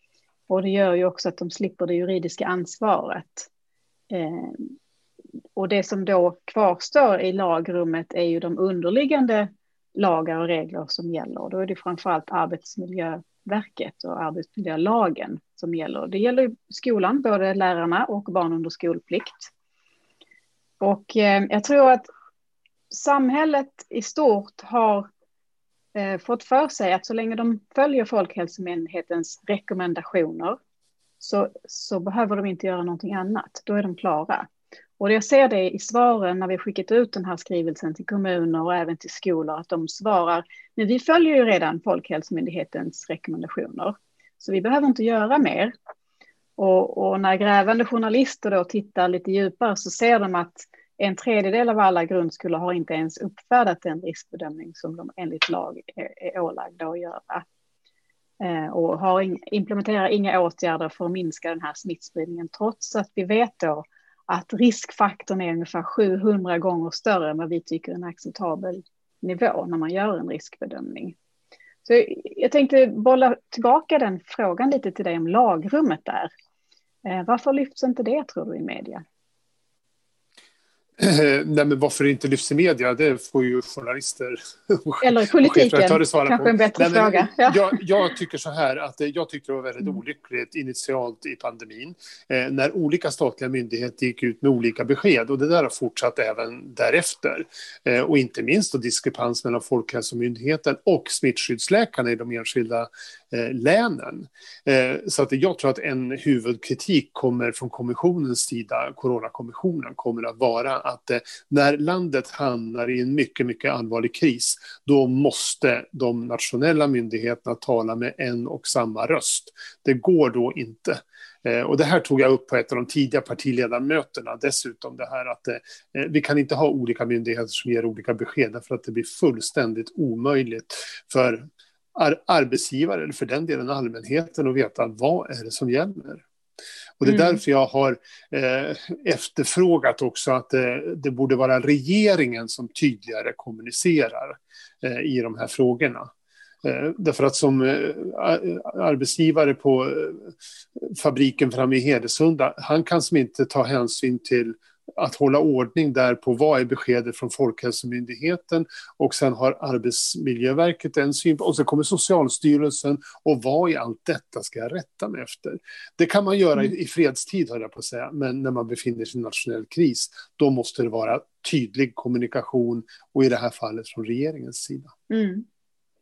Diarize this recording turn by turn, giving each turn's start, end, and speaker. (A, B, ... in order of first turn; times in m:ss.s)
0:00.5-0:03.5 A
0:04.1-0:04.7 A
0:05.6-0:19.5 A
0:20.8-0:22.1 A
0:22.9-0:25.1 A
0:25.9-0:30.6 A
0:31.2-0:34.5 A
0:35.0-0:45.7 A
0:46.6-0:57.4 A
0:58.4-1:11.1 A
1:11.8-1:16.3 A
1:17.0-1:19.0 A
1:21.0-2:16.2 B
1:25.0-1:27.8 A
2:17.0-2:26.1 B
2:17.0-2:17.4 A
2:26.6-2:54.9 B
2:55.1-2:55.4 A